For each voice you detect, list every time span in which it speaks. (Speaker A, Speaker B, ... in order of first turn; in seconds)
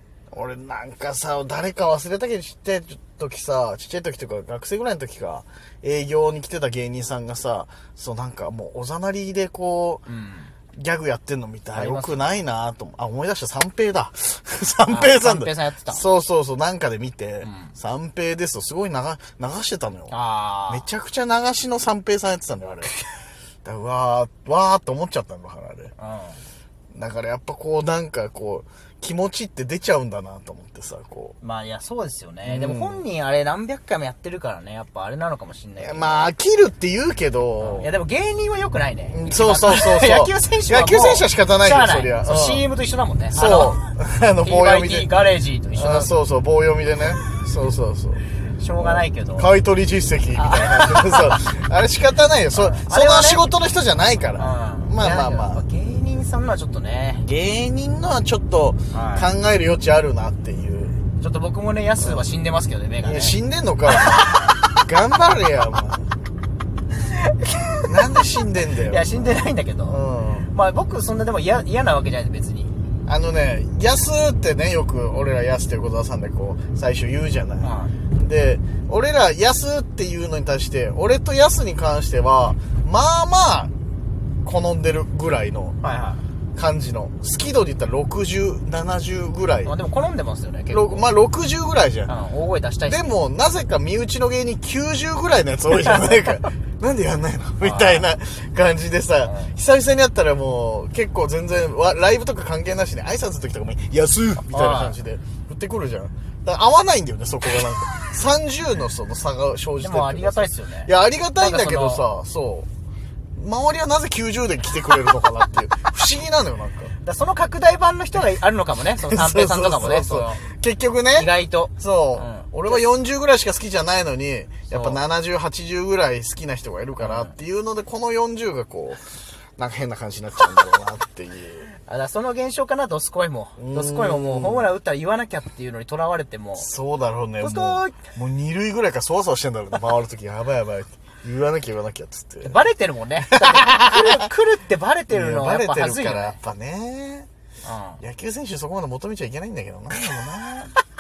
Speaker A: 0.3-10.1, 10.7-20.2, 20.7-23.0, 23.6-25.9, 26.9-31.4, 32.4-33.0, 35.8-37.9, 39.1-42.7, 43.3-45.2, 45.8-55.6, 57.2-61.0, 62.0-62.3, 63.0-66.1, 67.9-70.5, 73.1-83.7, 84.4-85.8, 86.6-89.7, 90.7-92.1, 92.9-112.7, 113.4-117.0, 119.0-131.7, 133.6-134.7, 136.6-142.6, 143.2-144.3, 145.1-147.3, 148.0-150.8
Speaker B: 10.1-10.6, 11.7-12.4, 14.9-16.1, 17.4-17.8, 20.1-20.9, 26.0-26.4, 31.4-36.3, 37.6-43.8, 44.4-46.1, 48.4-49.5, 50.4-51.4, 52.5-53.5, 54.4-57.3, 58.9-59.3, 61.2-63.4, 63.9-64.8, 67.0-70.0, 70.5-72.8, 77.6-78.0, 85.8-86.2, 89.6-91.1, 92.1-93.1, 97.6-98.1, 99.2-99.5, 104.4-105.0, 109.8-112.1, 117.0-120.4, 121.2-122.8, 124.7-125.0, 127.0-127.3, 131.8-136.7, 137.4-138.1, 142.4-146.4, 147.6-148.0